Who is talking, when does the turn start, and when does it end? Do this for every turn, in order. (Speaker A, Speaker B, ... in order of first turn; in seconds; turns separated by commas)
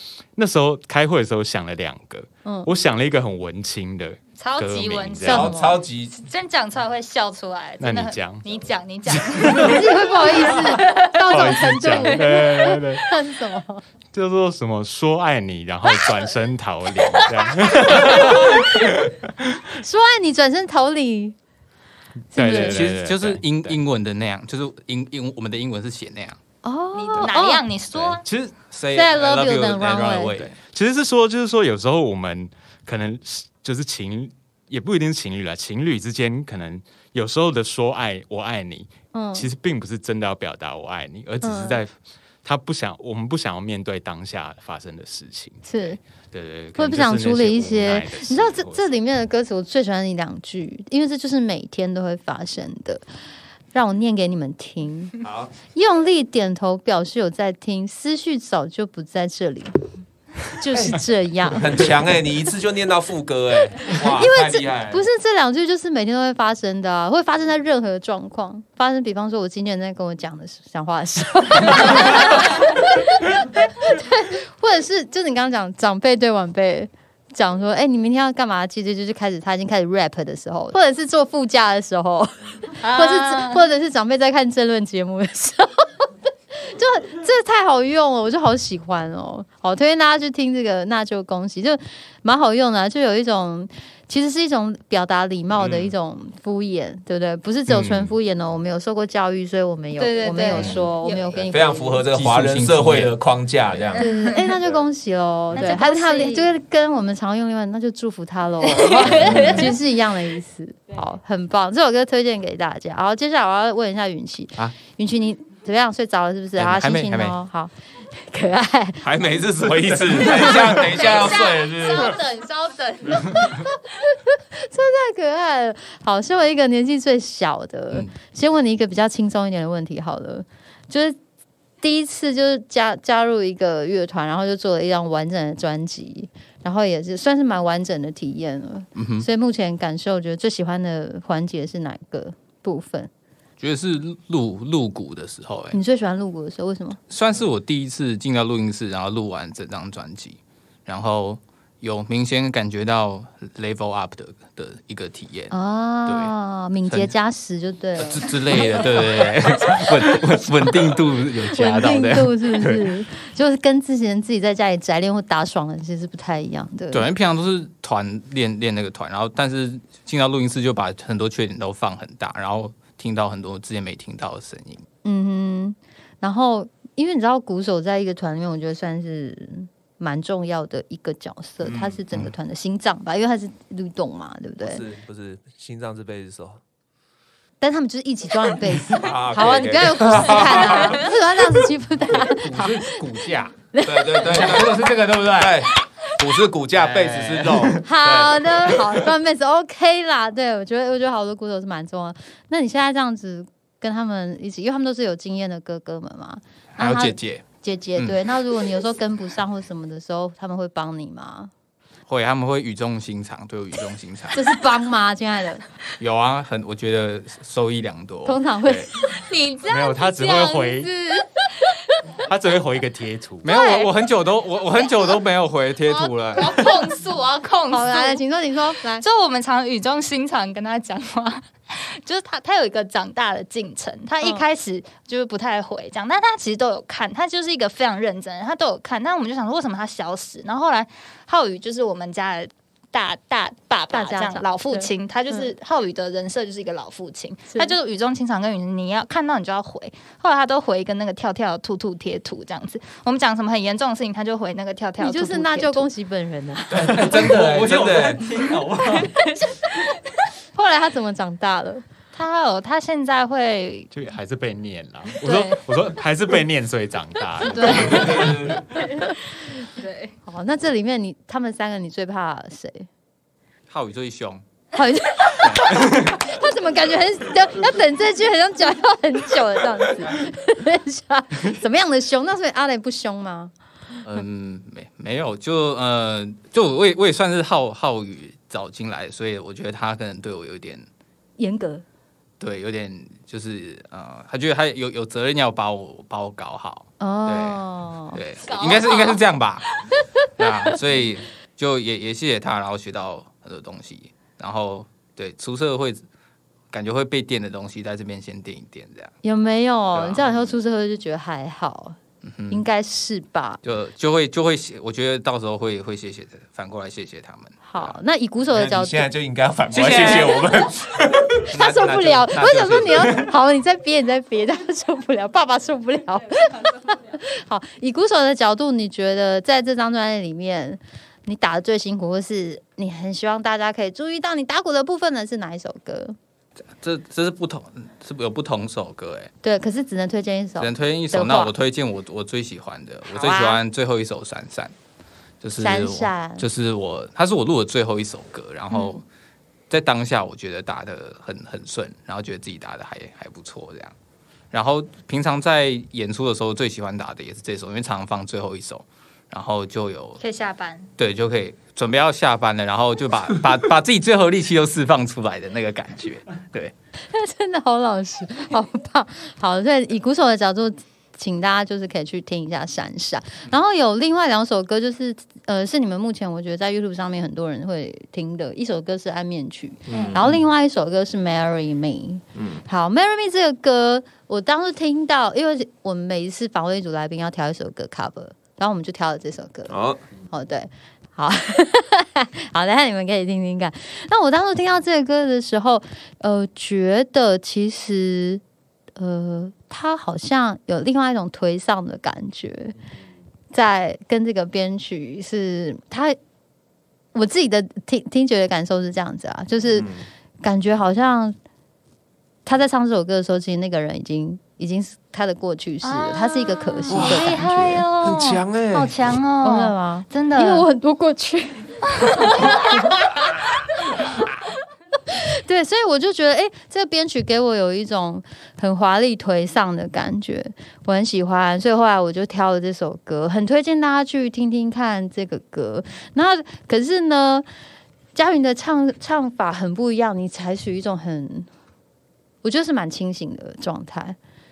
Speaker A: 0.3-5.5, Speaker B: 2.4-2.7, Speaker C: 4.4-5.5, Speaker B: 5.2-5.8, Speaker D: 5.3-6.2, Speaker C: 6.2-12.3, Speaker A: 7.8-8.4, Speaker A: 9.1-9.8, Speaker B: 9.5-13.8, Speaker A: 11.3-13.0, Speaker A: 14.1-19.6, Speaker B: 18.0-18.6, Speaker B: 19.8-21.4, Speaker A: 22.3-23.8, Speaker B: 22.3-22.8, Speaker E: 22.5-26.4, Speaker B: 26.6-27.6, Speaker C: 26.9-28.2, Speaker A: 27.9-28.4, Speaker E: 28.5-30.6, Speaker B: 28.9-30.4, Speaker A: 30.7-48.9, Speaker B: 39.1-39.5, Speaker B: 41.4-41.8, Speaker B: 45.6-46.0, Speaker B: 46.8-53.0, Speaker B: 53.7-55.1, Speaker D: 55.2-55.5, Speaker B: 55.7-59.8, Speaker B: 60.5-61.9, Speaker D: 60.7-65.0, Speaker B: 63.9-102.0, Speaker C: 82.8-83.6, Speaker D: 95.6-95.9, Speaker A: 97.7-98.1, Speaker C: 100.0-101.4, Speaker D: 101.4-104.0, Speaker E: 102.1-103.1, Speaker C: 103.9-104.5, Speaker B: 103.9-119.0, Speaker C: 105.5-106.5, Speaker C: 108.7-109.7, Speaker E: 109.2-109.5, Speaker E: 116.5-117.4, Speaker D: 119.0-122.2, Speaker C: 120.8-123.5, Speaker B: 123.2-131.2, Speaker B: 131.8-143.1, Speaker E: 138.9-139.3, Speaker E: 143.6-145.8, Speaker B: 145.7-147.0, Speaker E: 147.1-155.5, Speaker B: 155.5-159.1, Speaker E: 156.1-156.3, Speaker E: 156.9-157.1, Speaker E: 158.0-162.9, Speaker B: 161.5-167.1, Speaker E: 166.9-174.8, Speaker B: 175.0-184.8, Speaker D: 181.6-182.0, Speaker D: 184.6-186.6, Speaker B: 187.6-193.0, Speaker D: 188.9-191.1, Speaker E: 192.1-195.7, Speaker B: 193.7-194.6, Speaker D: 193.8-199.0, Speaker E: 196.7-197.8, Speaker B: 197.8-211.5, Speaker E: 206.8-207.4, Speaker E: 208.0-208.2, Speaker E: 212.1-214.4, Speaker B: 214.3-215.6, Speaker E: 216.0-218.4, Speaker B: 218.2-218.9, Speaker C: 219.1-221.4, Speaker A: 219.7-220.9, Speaker A: 222.2-223.5, Speaker E: 223.4-226.7, Speaker C: 223.5-223.9, Speaker C: 225.9-228.2, Speaker B: 227.7-229.0, Speaker C: 229.0-255.9, Speaker B: 243.9-245.4, Speaker B: 255.0-257.1, Speaker D: 256.7-258.3, Speaker E: 256.8-259.1, Speaker B: 260.5-261.8, Speaker C: 262.1-263.9, Speaker A: 263.9-268.5, Speaker C: 265.2-265.6, Speaker C: 267.4-269.1, Speaker B: 267.5-268.1, Speaker D: 267.8-268.6, Speaker C: 269.7-270.1, Speaker B: 270.2-272.9, Speaker E: 273.7-274.4, Speaker B: 274.7-283.5, Speaker E: 275.4-276.1, Speaker E: 284.0-290.8, Speaker B: 291.4-291.8, Speaker E: 292.4-297.6, Speaker B: 297.0-298.2, Speaker E: 298.1-299.6, Speaker C: 298.4-299.2, Speaker E: 300.4-306.0, Speaker E: 306.7-309.1, Speaker B: 309.2-312.0, Speaker E: 309.9-310.4, Speaker E: 312.2-312.6, Speaker B: 312.5-313.6, Speaker E: 313.6-317.9, Speaker B: 317.6-319.1, Speaker D: 318.5-323.2, Speaker E: 319.7-320.5, Speaker B: 321.5-336.2, Speaker E: 336.8-339.3, Speaker B: 339.4-341.5, Speaker E: 340.6-344.7, Speaker B: 343.1-343.6, Speaker E: 345.4-349.0, Speaker B: 345.6-346.4, Speaker B: 348.7-349.0, Speaker E: 349.7-353.9, Speaker E: 354.5-360.2, Speaker C: 360.2-360.9, Speaker E: 361.0-366.7, Speaker B: 367.1-389.7, Speaker D: 379.9-380.3, Speaker D: 382.3-382.6, Speaker D: 389.7-390.0, Speaker B: 390.3-398.4, Speaker B: 399.0-402.8, Speaker B: 403.5-406.2, Speaker B: 407.1-409.9, Speaker D: 409.7-410.0, Speaker B: 410.4-411.4, Speaker B: 412.4-417.8, Speaker C: 415.8-420.7, Speaker D: 416.9-418.9, Speaker B: 419.4-424.3, Speaker C: 422.0-422.8, Speaker B: 425.1-437.4, Speaker B: 438.1-441.5, Speaker B: 442.4-444.2